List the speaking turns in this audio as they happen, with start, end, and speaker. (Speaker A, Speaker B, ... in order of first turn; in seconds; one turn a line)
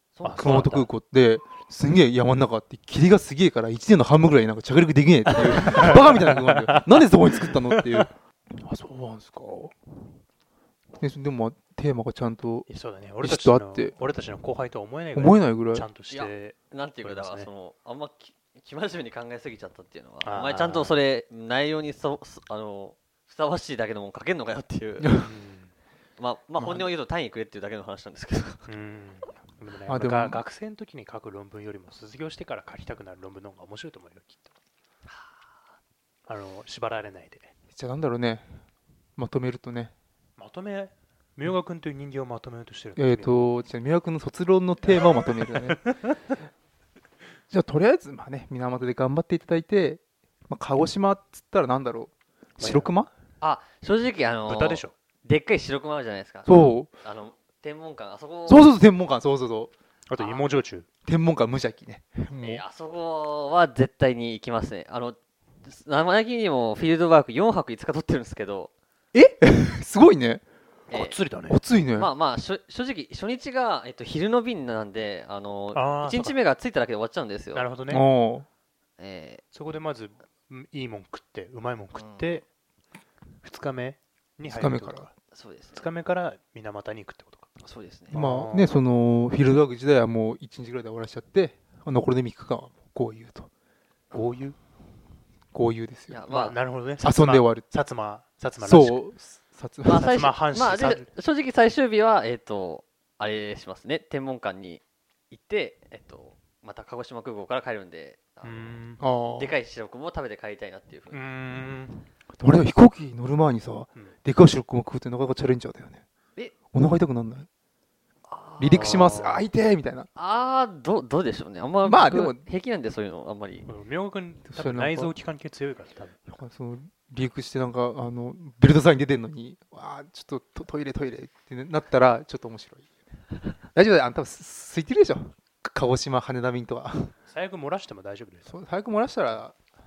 Speaker A: 0.1-0.9
Speaker B: 0.2-0.8
Speaker C: 0.4-9.8
Speaker B: 5.3-8.1
Speaker C: 11.0-12.7
Speaker B: 12.7-17.5
Speaker C: 13.2-14.0
Speaker C: 15.1-15.9
Speaker A: 16.1-25.1
Speaker B: 20.2-21.0
Speaker B: 25.2-25.7
Speaker A: 26.2-28.7
Speaker B: 28.7-34.5
Speaker C: 29.9-30.4
Speaker B: 36.3-37.5
Speaker C: 37.7-38.5
Speaker C: 39.2-39.9
Speaker B: 40.4-43.5
Speaker C: 43.0-45.8
Speaker B: 44.9-45.9
Speaker C: 47.5-53.1
Speaker B: 52.6-52.9
Speaker A: 53.4-58.7
Speaker B: 54.5-54.9
Speaker C: 56.5-56.9
Speaker C: 58.5-59.7
Speaker B: 60.1-60.9
Speaker A: 60.2-60.5
Speaker C: 61.0-62.6
Speaker A: 62.4-68.7
Speaker C: 69.1-70.4
Speaker A: 70.9-71.2
Speaker B: 70.9-71.6
Speaker C: 71.5-72.1
Speaker A: 72.0-77.7
Speaker B: 75.7-76.4
Speaker B: 77.5-78.1
Speaker C: 77.9-78.5
Speaker A: 79.0-79.4
Speaker B: 79.5-82.5
Speaker A: 82.0-82.3
Speaker B: 83.4-85.1
Speaker C: 84.5-85.1
Speaker A: 85.3-85.9
Speaker B: 85.8-87.5
Speaker A: 87.6-88.2
Speaker B: 88.1-88.7
Speaker C: 88.1-93.5
Speaker B: 94.1-94.6
Speaker C: 95.5-96.2
Speaker A: 96.1-96.6
Speaker B: 96.3-99.0
Speaker C: 97.0-97.6
Speaker C: 98.6-100.1
Speaker A: 99.9-108.8
Speaker B: 99.9-101.1
Speaker B: 108.4-109.0
Speaker C: 109.0-109.6
Speaker A: 109.4-111.2
Speaker B: 111.1-112.0
Speaker C: 112.4-116.0
Speaker C: 116.7-117.5
Speaker A: 118.3-119.5
Speaker C: 118.6-120.1
Speaker A: 120.2-123.7
Speaker C: 121.8-122.4
Speaker B: 123.7-126.2
Speaker C: 124.5-125.1
Speaker C: 126.3-132.9
Speaker C: 133.7-137.1
Speaker B: 137.3-138.5
Speaker C: 138.5-139.6